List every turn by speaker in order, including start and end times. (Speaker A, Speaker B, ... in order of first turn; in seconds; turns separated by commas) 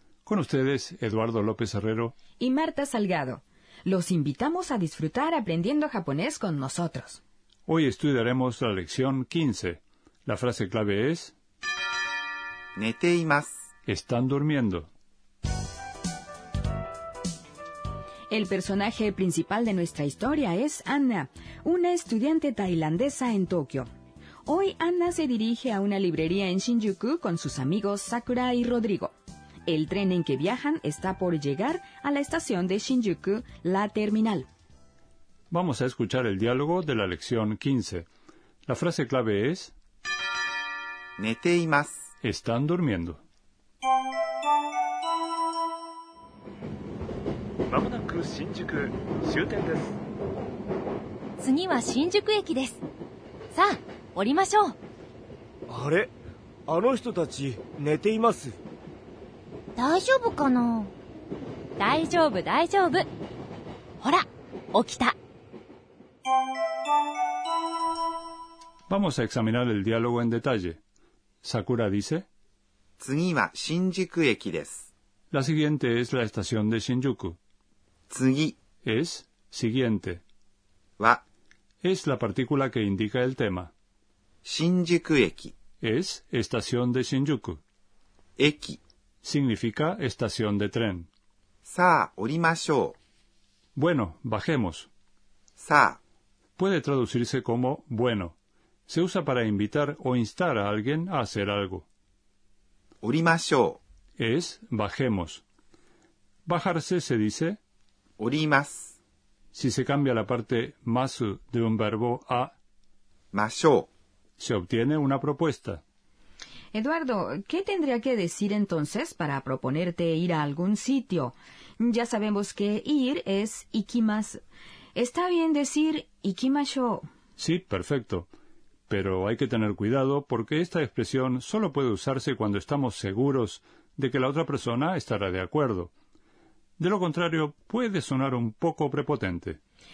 Speaker A: 0.3-2.1, Speaker B: 2.4-7.2, Speaker A: 7.7-11.3, Speaker C: 12.8-13.6, Speaker A: 13.9-14.9, Speaker B: 18.3-23.9, Speaker B: 24.4-29.1, Speaker B: 29.7-34.5, Speaker A: 35.5-38.1, Speaker A: 38.7-39.7, Speaker C: 41.2-42.1, Speaker A: 42.2-43.2, Speaker D: 47.7-50.0, Speaker E: 51.4-52.8, Speaker E: 53.5-54.7, Speaker F: 55.7-56.1, Speaker F: 56.7-58.6, Speaker E: 59.8-60.9, Speaker E: 61.8-63.1, Speaker E: 64.0-65.2, Speaker A: 68.9-70.8, Speaker A: 71.4-72.3, Speaker C: 73.0-74.9, Speaker A: 75.3-77.4, Speaker C: 78.1-78.6, Speaker A: 78.8-80.2, Speaker A: 81.8-83.7, Speaker C: 84.5-85.5, Speaker A: 85.8-87.6, Speaker C: 88.4-88.8, Speaker A: 89.2-91.1, Speaker C: 91.7-93.0, Speaker A: 93.8-94.9, Speaker C: 95.6-96.0, Speaker A: 96.6-98.4, Speaker A: 98.9-101.9, Speaker C: 103.0-103.8, Speaker A: 104.2-105.4, Speaker A: 106.5-107.6, Speaker C: 108.2-109.0, Speaker A: 109.5-112.5, Speaker C: 113.3-113.9, Speaker A: 114.4-115.8, Speaker B: 116.7-124.4, Speaker B: 125.0-127.1, Speaker A: 127.4-128.3, Speaker A: 128.9-135.9, Speaker A: 136.8-139.6